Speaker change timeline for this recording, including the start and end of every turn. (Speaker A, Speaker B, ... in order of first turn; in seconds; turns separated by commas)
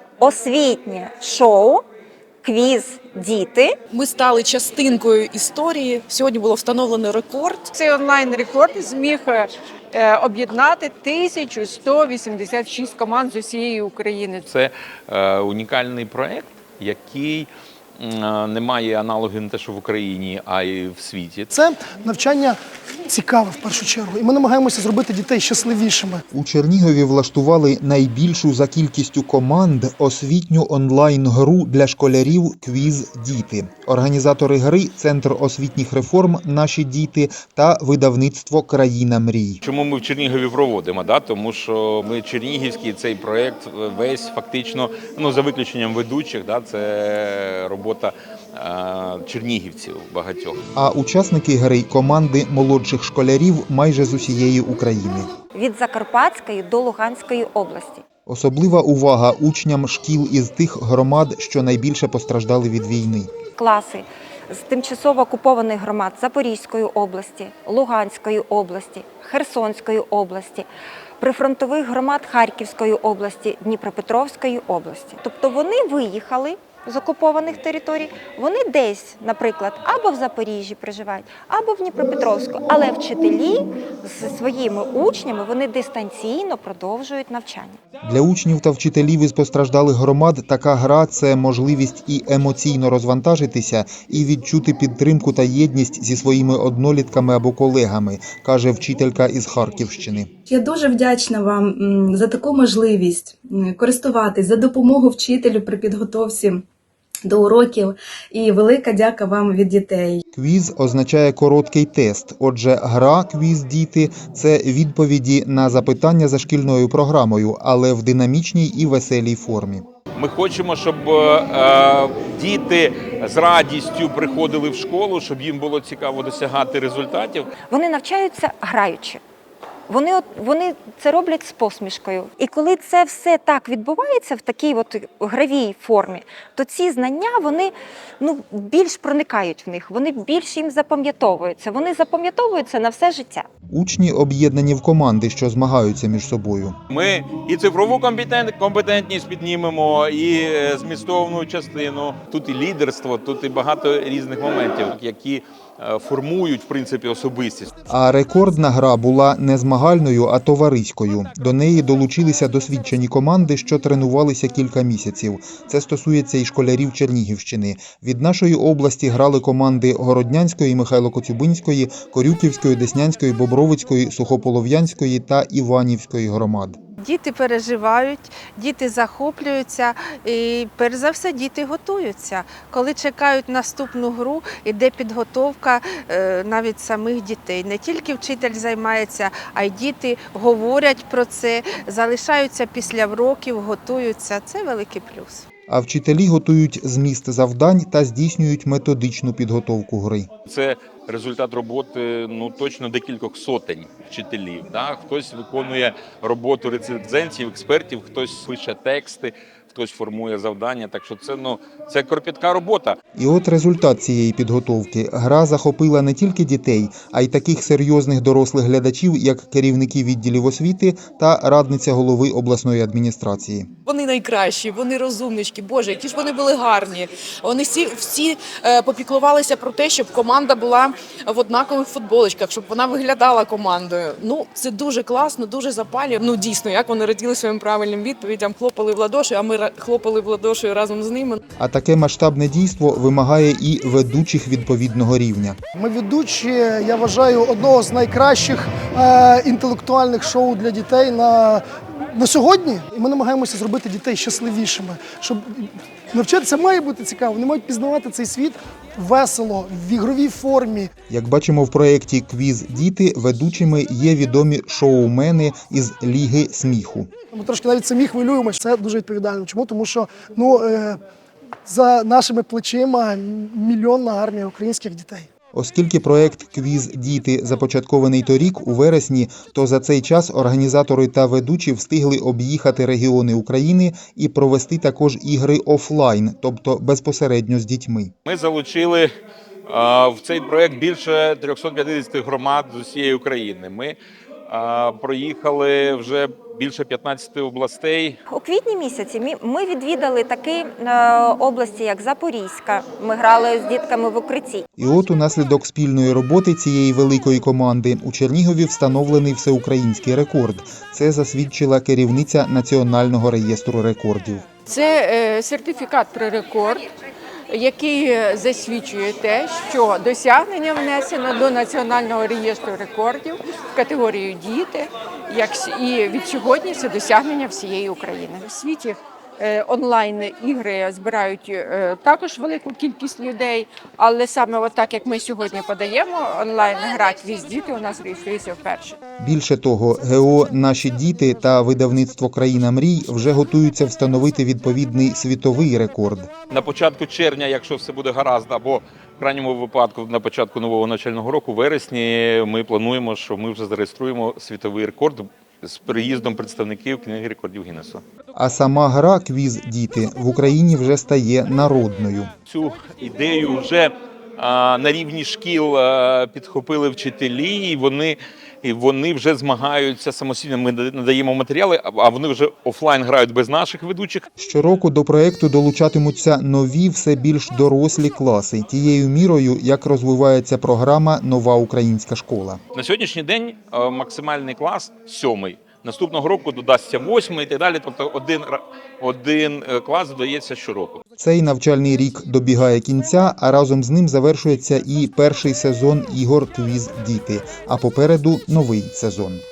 Speaker A: 0.2-1.8, Speaker A: 2.4-3.7, Speaker B: 3.9-7.7, Speaker C: 7.7-14.4, Speaker D: 14.5-21.5, Speaker E: 21.5-26.2, Speaker F: 26.3-39.6, Speaker D: 39.6-50.6, Speaker F: 50.7-55.3, Speaker A: 55.5-58.0, Speaker F: 58.2-63.3, Speaker A: 63.6-70.7, Speaker A: 71.2-87.8, Speaker F: 88.0-100.3, Speaker G: 100.5-106.6, Speaker G: 107.2-110.2, Speaker F: 110.3-119.8, Speaker D: 120.2-127.5, Speaker A: 127.7-129.2, Speaker A: 129.9-143.5, Speaker F: 143.7-146.8, Speaker D: 146.9-157.7, Speaker F: 157.9-176.8, Speaker H: 177.0-195.4, Speaker F: 195.7-200.3, Speaker D: 200.5-213.0, Speaker F: 213.2-223.7, Speaker B: 223.8-241.4, Speaker F: 241.6-245.6, Speaker E: 245.8-251.6, Speaker E: 252.1-260.9, Speaker F: 261.1-267.1, Speaker E: 267.3-271.0, Speaker E: 271.6-275.3, Speaker F: 275.5-288.1, Speaker D: 288.2-289.1, Speaker D: 289.7-294.0, Speaker D: 294.5-298.2, Speaker A: 298.3-304.6, Speaker F: 304.8-314.4, Speaker C: 314.7-316.9, Speaker C: 317.5-339.0, Speaker F: 339.2-346.3, Speaker D: 346.5-358.0, Speaker F: 358.3-362.3, Speaker D: 362.5-374.3, Speaker F: 374.4-382.6, Speaker D: 382.7-391.0, Speaker F: 391.2-399.4